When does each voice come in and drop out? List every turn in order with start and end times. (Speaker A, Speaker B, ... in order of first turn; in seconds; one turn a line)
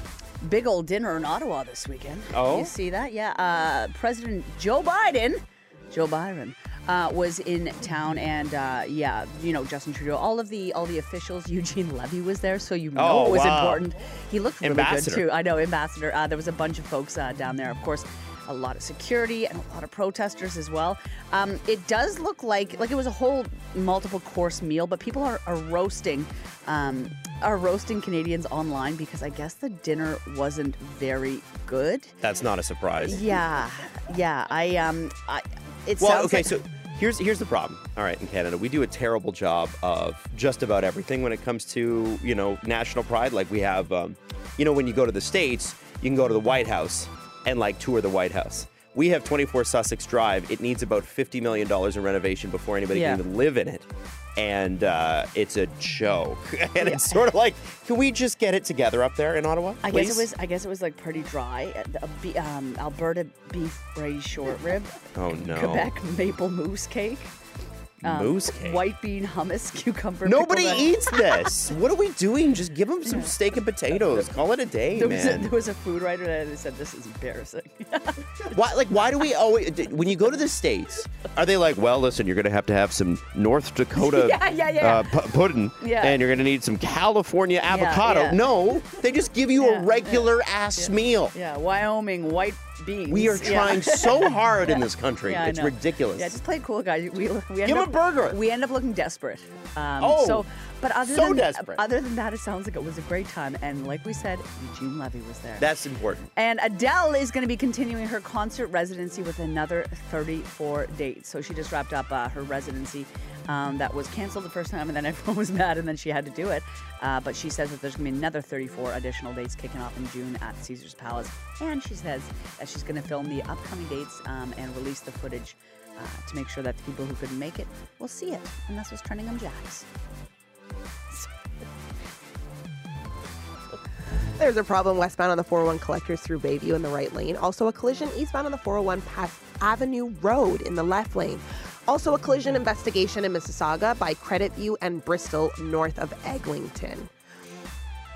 Speaker A: 0.4-32.2
Speaker B: 2.3-2.7
Speaker B: 12.9-13.9
Speaker B: 14.6-15.3
Speaker B: 32.2-33.3
Speaker A: 33.0-36.6
Speaker B: 36.0-60.3
Speaker A: 52.9-53.2
Speaker A: 56.8-57.2
Speaker A: 59.8-67.3
Speaker B: 65.1-65.9
Speaker B: 68.0-68.8
Speaker A: 68.0-71.5
Speaker B: 70.2-75.5
Speaker A: 73.0-73.3
Speaker A: 74.0-74.3
Speaker A: 74.9-78.5
Speaker B: 78.5-91.3
Speaker A: 84.0-86.2
Speaker A: 87.7-88.5
Speaker A: 89.6-105.8
Speaker B: 93.1-96.4
Speaker B: 97.6-98.4
Speaker B: 100.0-100.5
Speaker B: 101.0-101.8
Speaker B: 105.6-106.3
Speaker A: 106.3-129.9
Speaker C: 134.4-147.1